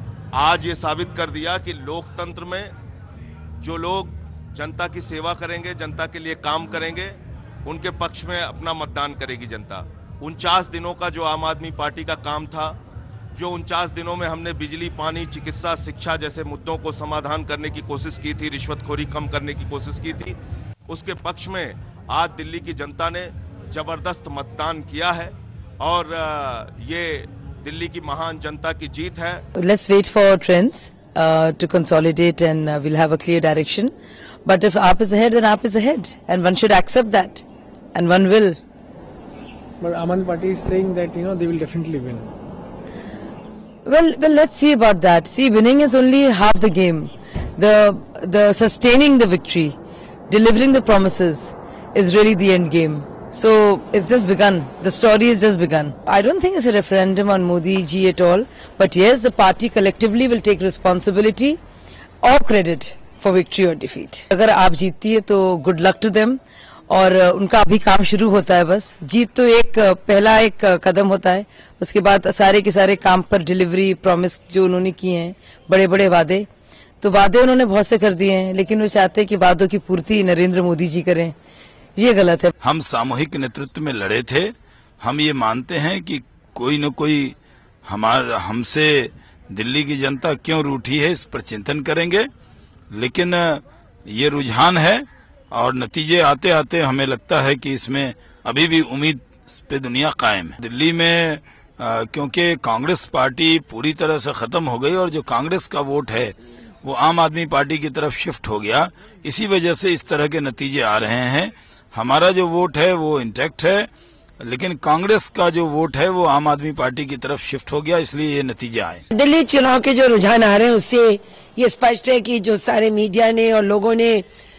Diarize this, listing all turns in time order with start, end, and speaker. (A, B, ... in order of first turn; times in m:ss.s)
0:00.3-0:02.7 A
0:03.6-0:12.8 A
0:13.4-0:20.4 A
0:20.9-0:29.4 A
0:29.6-0:33.9 B
0:34.4-0:37.4 B
0:38.0-0:38.6 B
0:39.8-0:42.3 C
0:43.8-0:49.8 B
0:50.3-1:01.6 B
1:02.2-1:16.5 B
1:17.0-1:21.4 B
1:22.0-1:22.5 B
1:22.6-1:27.4 D
1:27.9-1:32.3 D
1:32.9-1:53.9 D
1:54.4-1:59.0 D
1:59.1-2:04.2 E